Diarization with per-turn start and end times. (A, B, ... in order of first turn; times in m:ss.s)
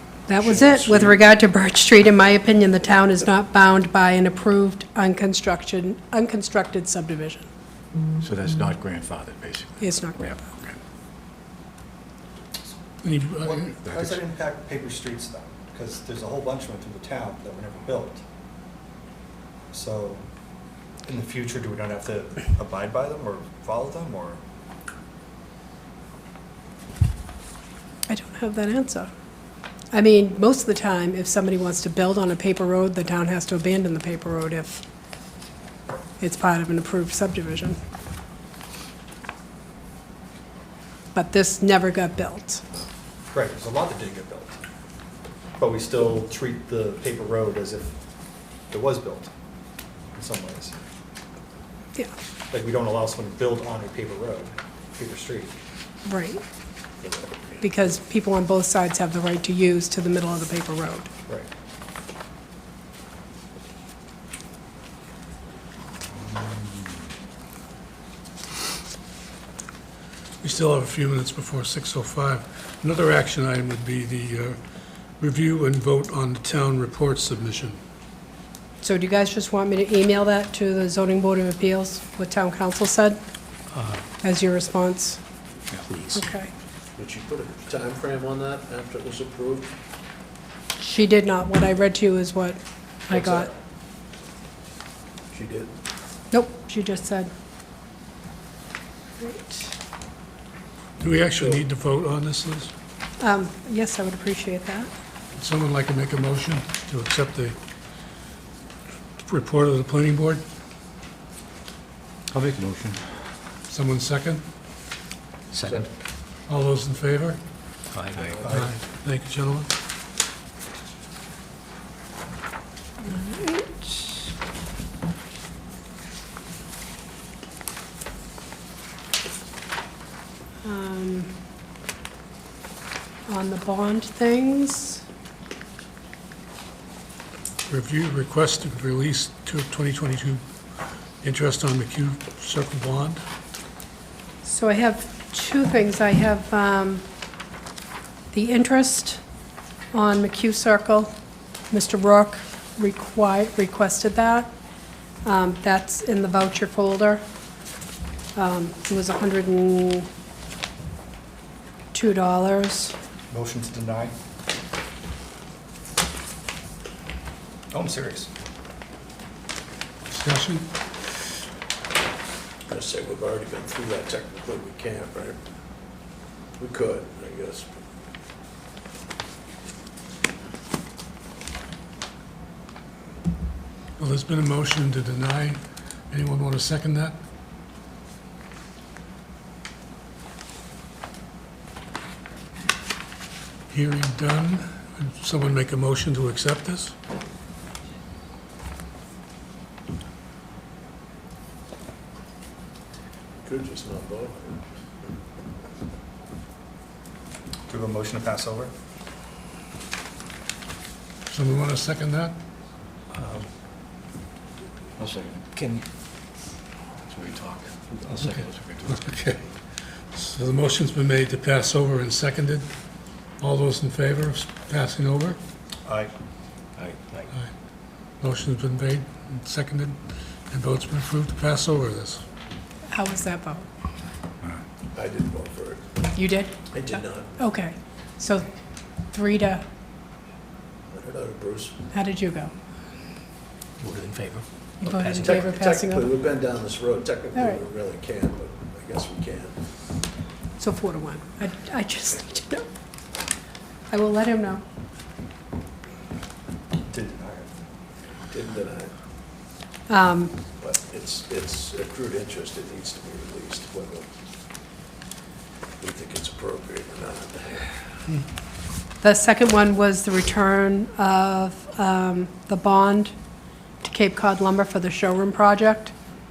0:00.3-0:07.4 A
0:00.3-0:01.2 B
0:08.2-0:09.8 C
0:09.8-0:10.5 A
0:13.0-0:13.7 D
0:13.4-0:18.2 E
0:13.8-0:14.2 C
0:19.7-0:20.2 E
0:21.0-0:24.4 E
0:28.1-0:29.1 A
0:29.9-0:34.8 A
0:36.2-0:37.8 A
0:41.1-0:42.7 A
0:43.3-0:44.6 E
0:45.6-0:48.0 E
0:48.7-0:49.3 E
0:50.1-0:50.7 E
0:52.5-0:55.5 E
0:56.0-0:56.4 A
0:57.0-0:57.5 B
0:57.6-1:01.1 A
1:10.4-1:14.6 D
1:15.2-1:17.8 D
1:18.8-1:23.2 A
1:24.2-1:25.2 A
1:25.7-1:26.2 C
1:26.1-1:26.5 A
1:27.0-1:29.7 B
1:30.8-1:33.5 A
1:33.1-1:33.5 B
1:35.3-1:35.7 B
1:36.3-1:37.3 A
1:39.2-1:39.7 A
1:41.0-1:42.7 D
1:41.4-1:41.6 B
1:43.2-1:44.9 A
1:45.4-1:47.6 D
1:49.2-1:50.4 D
1:52.3-1:53.0 C
1:53.7-1:54.4 D
1:55.5-1:55.9 C
1:56.5-1:57.4 D
1:57.9-1:58.5 C
1:58.2-1:58.4 B
1:58.4-1:58.7 E
1:58.4-1:59.7 D
2:03.0-2:04.3 A
2:10.6-2:11.3 A
2:13.3-2:15.0 A
2:17.7-2:20.4 D
2:21.2-2:23.2 D
2:24.4-2:27.0 A
2:28.3-2:29.2 A
2:29.9-2:31.1 A
2:31.7-2:34.5 A
2:35.2-2:37.2 A
2:38.3-2:40.1 A
2:41.9-2:43.0 A
2:43.3-2:44.1 E
2:47.7-2:48.3 E
2:50.1-2:50.7 D
2:52.7-2:55.4 B
2:56.6-2:57.7 B
3:04.0-3:07.2 D
3:13.7-3:16.9 D
3:23.4-3:24.6 B
3:27.7-3:28.7 E
3:31.3-3:32.4 D
3:35.0-3:35.8 C
3:37.1-3:39.2 C
3:38.4-3:39.5 D
3:40.1-3:42.7 D
3:43.4-3:45.4 D
3:45.8-3:46.1 E
3:46.8-3:47.3 C
3:48.2-3:50.0 D
3:50.5-3:52.2 D
3:52.9-3:53.6 A
3:54.9-3:55.8 B
3:56.1-3:58.5 A
3:56.7-3:57.3 B
3:59.1-3:59.6 A
4:00.9-4:01.7 B
4:01.9-4:02.5 A
4:03.8-4:05.4 C
4:04.8-4:06.1 A
4:05.1-4:09.5 B
4:10.6-4:12.7 A
4:13.9-4:14.6 A
4:16.9-4:17.6 E
4:18.3-4:18.9 B
4:19.9-4:20.4 A
4:20.6-4:24.1 B
4:25.8-4:27.8 B
4:29.0-4:33.1 A
4:33.8-4:35.9 A